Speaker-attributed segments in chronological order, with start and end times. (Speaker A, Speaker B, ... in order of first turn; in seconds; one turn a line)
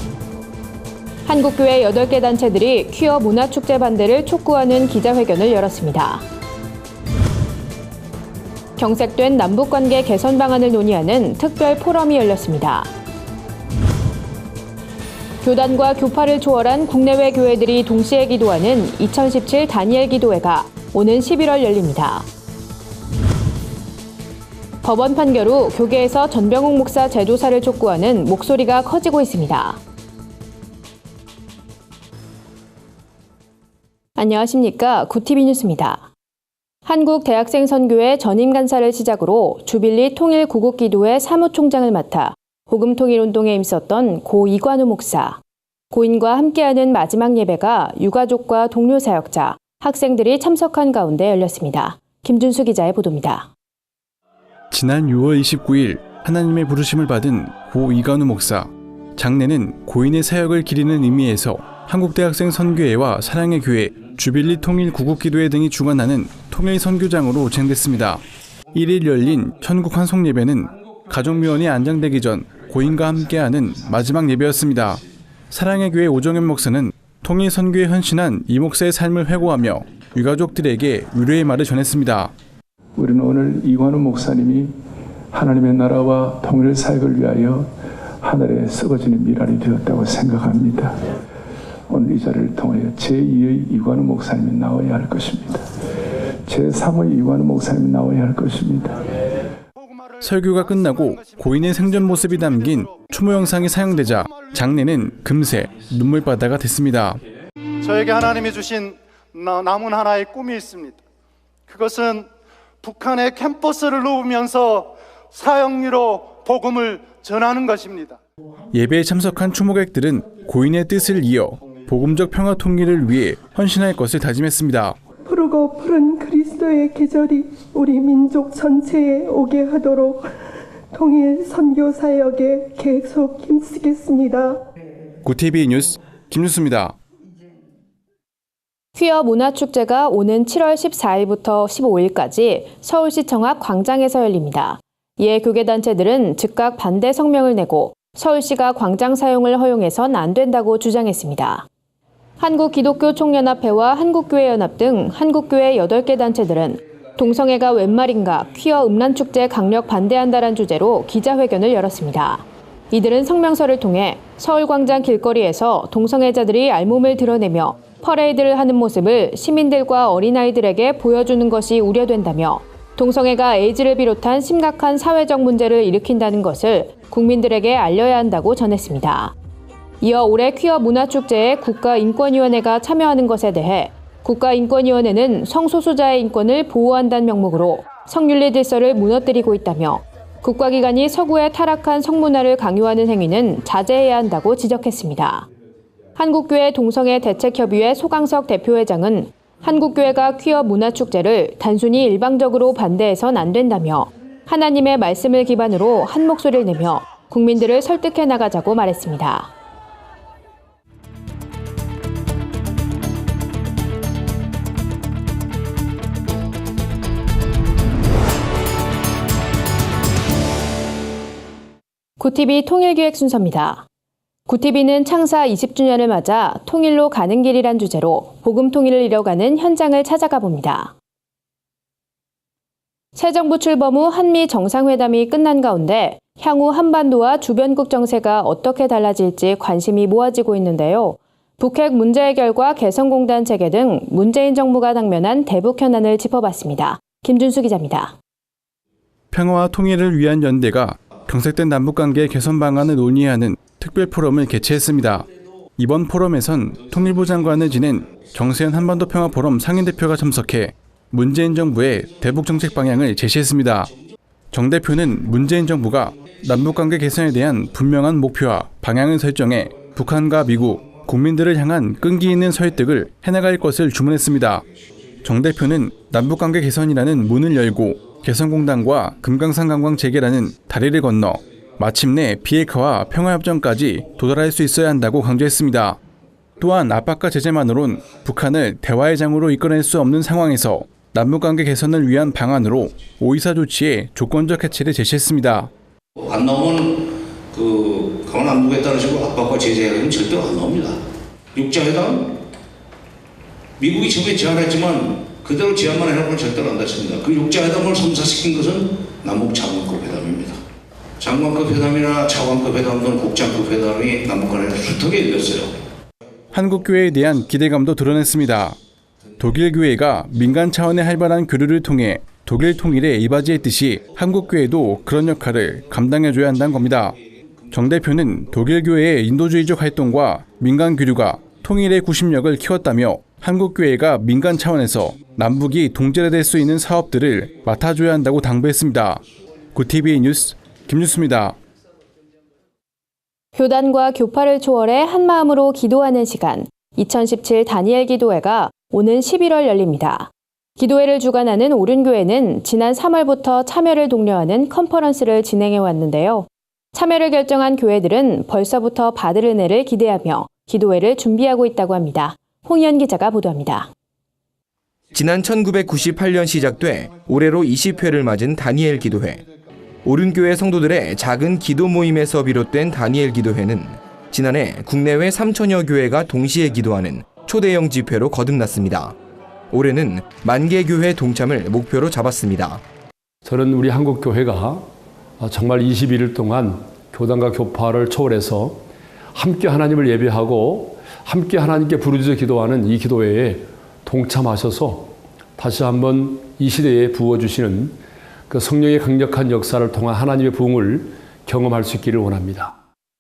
Speaker A: 1.2-6.2
Speaker A: 8.8-12.9
Speaker A: 15.4-22.3
Speaker A: 24.8-29.8
Speaker A: 34.2-36.1
Speaker A: 36.9-45.4
Speaker A: 45.9-53.5
Speaker B: 54.7-68.2
Speaker B: 68.7-82.3
Speaker C: 83.0-84.7
Speaker C: 85.3-87.7
Speaker C: 88.2-90.9
Speaker C: 91.9-95.7
Speaker C: 96.5-99.2
Speaker D: 99.8-102.9
Speaker B: 100.2-107.2
Speaker D: 107.8-111.0
Speaker D: 111.7-112.2
Speaker D: 112.8-118.2
Speaker B: 118.7-125.0
Speaker E: 125.2-130.3
Speaker E: 130.9-134.6
Speaker B: 135.2-136.9
Speaker A: 138.9-151.7
Speaker A: 152.4-179.3
Speaker A: 180.0-195.5
Speaker A: 196.2-209.5
Speaker A: 222.2-223.8
Speaker A: 224.5-230.9
Speaker A: 233.1-248.1
Speaker B: 249.3-255.3
Speaker B: 255.8-263.9
Speaker B: 264.5-274.6
Speaker B: 275.2-286.0
Speaker B: 286.6-295.7
Speaker F: 296.2-301.0
Speaker F: 301.5-302.3
Speaker F: 303.8-310.6
Speaker F: 311.2-315.7
Speaker B: 316.5-318.8
Speaker B: 319.4-327.2
Speaker B: 327.7-339.2
Speaker B: 339.7-341.6
Speaker A: 343.6-363.9
Speaker G: 365.1-369.4
Speaker G: 370.0-379.1
Speaker G: 379.7-382.8
Speaker H: 383.4-384.9
Speaker H: 385.4-388.8
Speaker H: 389.3-397.9
Speaker H: 398.5-402.8